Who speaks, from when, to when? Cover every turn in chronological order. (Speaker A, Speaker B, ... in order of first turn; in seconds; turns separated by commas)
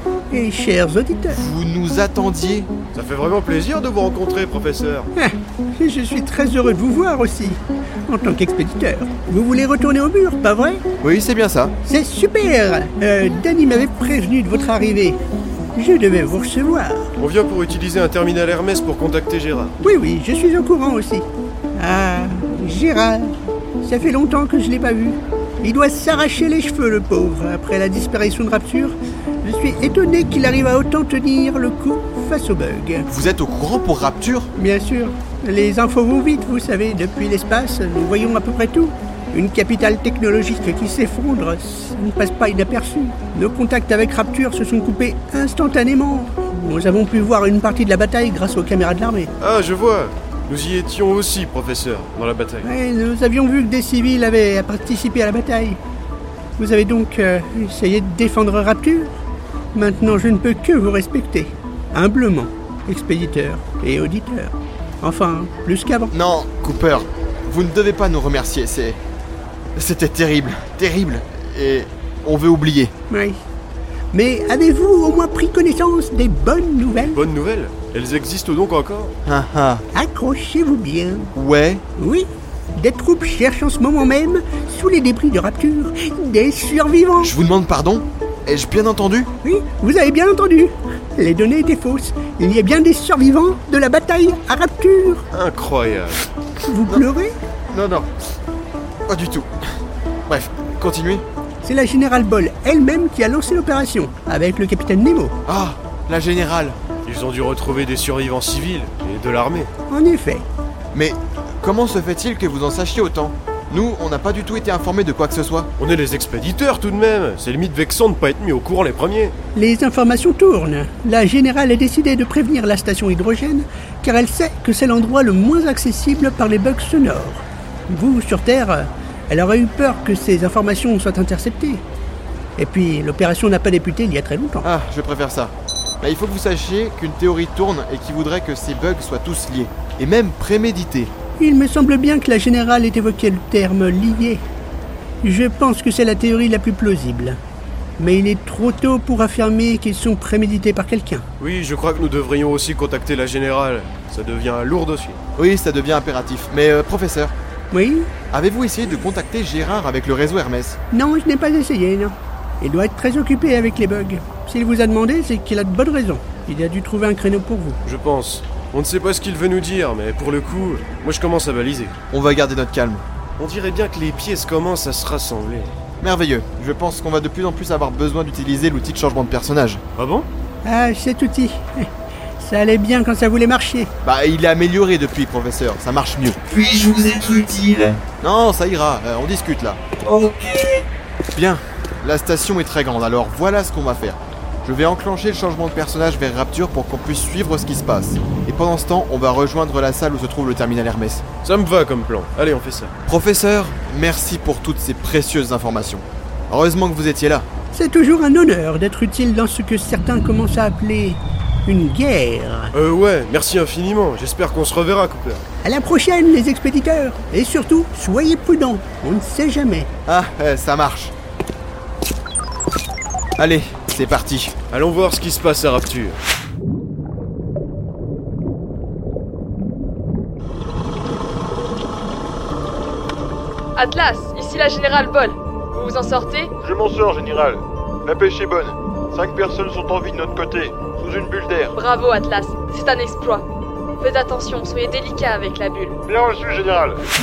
Speaker A: 0.3-1.4, Speaker B: 1.3-2.7, Speaker C: 2.9-5.1, Speaker A: 5.1-10.8, Speaker B: 11.0-11.8, Speaker A: 11.8-15.2, Speaker A: 15.7-17.1, Speaker C: 17.2-19.8, Speaker A: 19.8-21.2, Speaker A: 21.8-33.0, Speaker B: 33.1-34.5, Speaker A: 34.5-49.3, Speaker C: 49.4-52.7, Speaker A: 52.6-55.8, Speaker A: 56.6-59.2, Speaker A: 59.7-66.1, Speaker B: 66.1-69.0, Speaker B: 69.8-72.9, Speaker A: 73.1-73.4, Speaker A: 74.1-77.2, Speaker C: 77.0-79.1, Speaker B: 79.2-79.8, Speaker A: 79.9-81.3, Speaker B: 81.3-81.8, Speaker A: 82.0-87.3, Speaker B: 87.2-89.3, Speaker A: 89.4-95.2, Speaker C: 95.3-96.3, Speaker A: 96.6-97.3, Speaker B: 97.7-98.1, Speaker B: 99.1-99.5, Speaker B: 100.3-101.2, Speaker A: 101.6-105.3, Speaker B: 105.5-106.8, Speaker C: 107.0-109.7, Speaker A: 109.9-110.5, Speaker B: 110.9-115.7, Speaker C: 115.8-119.3, Speaker A: 119.5-131.8, Speaker A: 132.6-134.7, Speaker B: 134.6-141.1, Speaker A: 141.4-144.4, Speaker A: 145.2-147.4, Speaker A: 148.0-151.2, Speaker C: 151.4-155.2, Speaker B: 155.4-157.3, Speaker A: 157.7-158.1, Speaker B: 158.3-160.8, Speaker A: 160.9-167.8, Speaker C: 167.8-171.9, Speaker B: 172.1-173.0, Speaker C: 173.4-175.7, Speaker B: 176.0-179.8, Speaker C: 180.0-180.3, Speaker A: 180.6-183.9, Speaker B: 184.0-186.4, Speaker D: 186.5-188.0, Speaker B: 188.2-189.8, Speaker D: 190.0-190.8, Speaker B: 191.3-201.2, Speaker C: 201.4-202.9, Speaker B: 203.1-207.5, Speaker A: 207.7-212.7, Speaker C: 212.7-215.4, Speaker A: 215.6-219.9, Speaker B: 220.1-221.1, Speaker B: 223.4-224.5, Speaker C: 224.7-226.2, Speaker E: 233.8-236.5, Speaker F: 236.6-241.7, Speaker E: 241.7-243.4, Speaker E: 244.0-246.0, Speaker F: 246.1-247.0